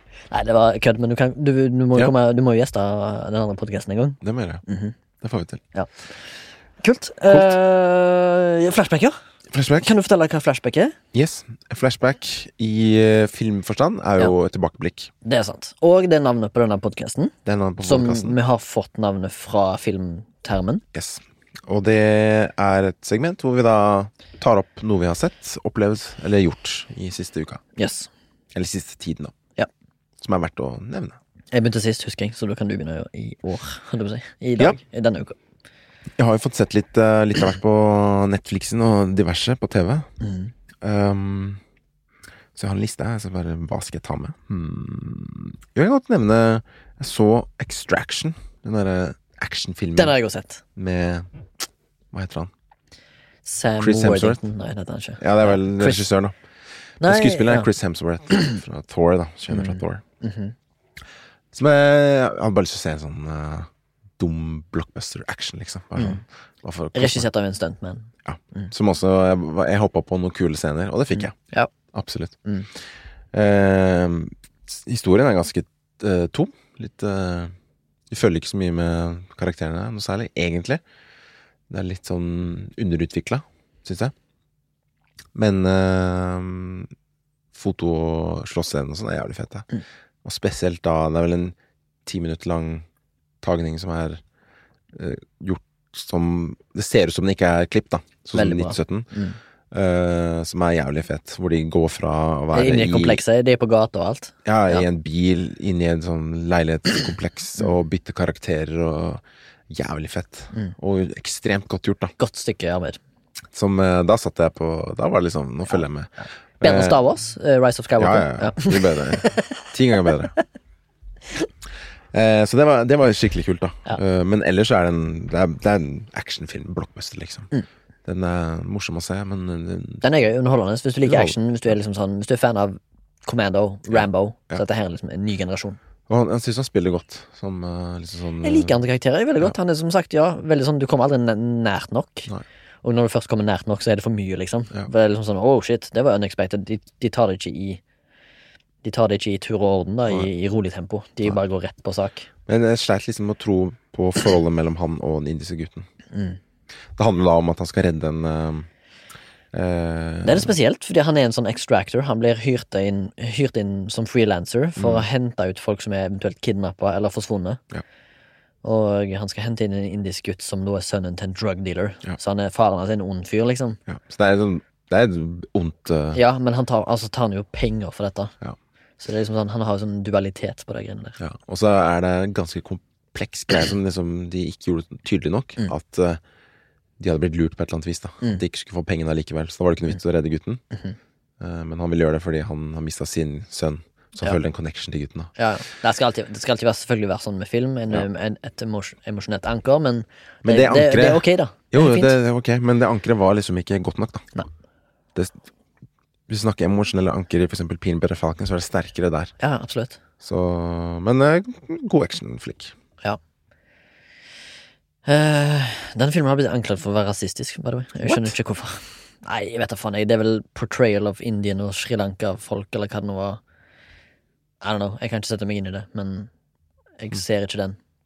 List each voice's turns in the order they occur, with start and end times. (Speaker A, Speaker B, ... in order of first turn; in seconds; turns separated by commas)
Speaker A: 0.3-4.9, Speaker B: 4.2-4.6, Speaker B: 5.2-5.6, Speaker A: 6.8-9.2, Speaker B: 7.3-7.5, Speaker B: 9.5-9.9, Speaker A: 9.8-10.9, Speaker B: 11.1-15.1, Speaker A: 15.2-20.8, Speaker B: 17.4-18.4, Speaker B: 20.9-27.6, Speaker A: 27.8-28.1, Speaker B: 28.5-29.3, Speaker B: 30.2-31.2, Speaker A: 31.5-35.4, Speaker B: 36.2-40.1, Speaker A: 40.2-40.5, Speaker B: 40.8-41.6, Speaker B: 42.5-50.1, Speaker A: 50.0-50.6, Speaker B: 50.8-51.3, Speaker B: 52.1-52.5, Speaker A: 53.4-56.0, Speaker B: 53.8-54.4, Speaker B: 55.2-56.4, Speaker A: 57.0-57.7, Speaker B: 57.0-60.0, Speaker A: 59.5-60.5, Speaker B: 61.5-67.3, Speaker A: 66.9-68.7, Speaker B: 68.2-71.3, Speaker A: 71.2-71.7, Speaker B: 71.9-72.4, Speaker B: 73.3-77.5, Speaker B: 78.1-80.8, Speaker B: 81.7-84.1, Speaker B: 85.3-86.9, Speaker B: 87.5-89.7, Speaker B: 90.2-92.8, Speaker B: 93.4-94.2, Speaker B: 94.9-99.1, Speaker A: 98.3-99.4, Speaker B: 99.7-103.2, Speaker A: 102.5-104.8, Speaker B: 104.4-112.1, Speaker A: 112.2-113.0, Speaker B: 113.5-117.0, Speaker A: 116.6-119.5, Speaker B: 118.0-120.3, Speaker B: 122.1-127.5, Speaker B: 128.0-130.0, Speaker A: 130.0-135.8, Speaker B: 131.0-131.7, Speaker B: 133.9-134.6, Speaker B: 136.1-138.8, Speaker A: 138.4-142.3, Speaker A: 142.8-147.8, Speaker A: 148.8-152.3, Speaker B: 152.5-155.9, Speaker A: 156.1-156.4, Speaker B: 157.0-158.7, Speaker B: 159.5-160.6, Speaker A: 160.2-167.6, Speaker B: 164.8-165.1, Speaker A: 168.6-173.8, Speaker B: 173.9-176.2, Speaker A: 176.1-178.3, Speaker A: 179.0-181.2, Speaker B: 181.2-186.2, Speaker B: 187.0-190.6, Speaker B: 191.4-195.3, Speaker A: 195.4-202.2, Speaker B: 200.4-204.3, Speaker B: 206.3-209.3, Speaker A: 209.4-210.0, Speaker B: 210.2-212.7, Speaker A: 215.0-223.4, Speaker B: 218.1-218.3, Speaker A: 224.6-226.3, Speaker A: 227.0-227.8